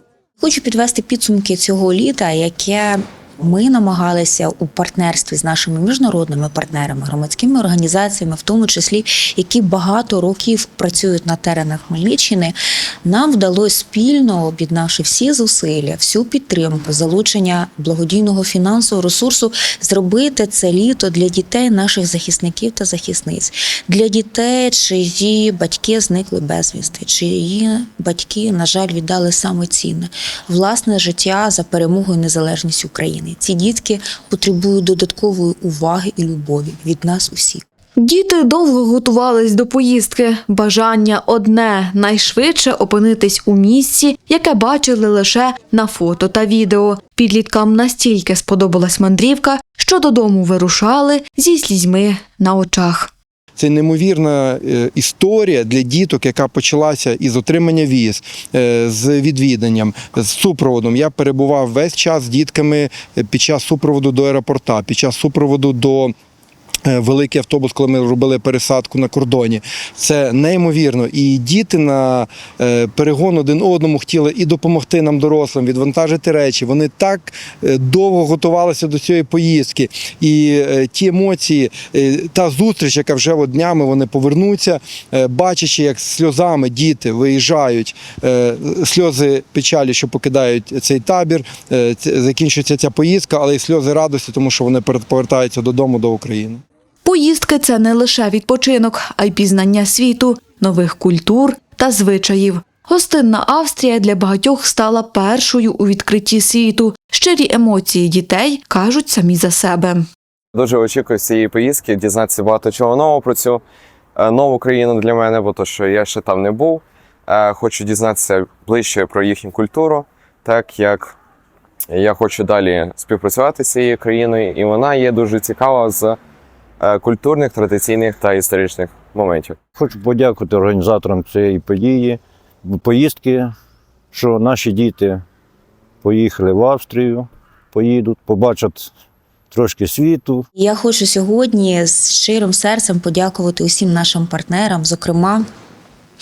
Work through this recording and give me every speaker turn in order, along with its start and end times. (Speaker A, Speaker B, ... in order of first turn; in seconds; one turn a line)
Speaker A: 0.4-37.6
Speaker B: 38.0-53.1
Speaker C: 53.5-66.1
Speaker C: 66.8-96.6
Speaker B: 97.0-110.0
Speaker D: 110.5-113.6
Speaker D: 114.2-121.1
Speaker D: 121.9-126.2
Speaker D: 126.8-129.6
Speaker E: 129.7-133.5
Speaker E: 134.1-135.2
Speaker E: 136.0-138.9
Speaker E: 139.5-140.4
Speaker A: 140.6-145.4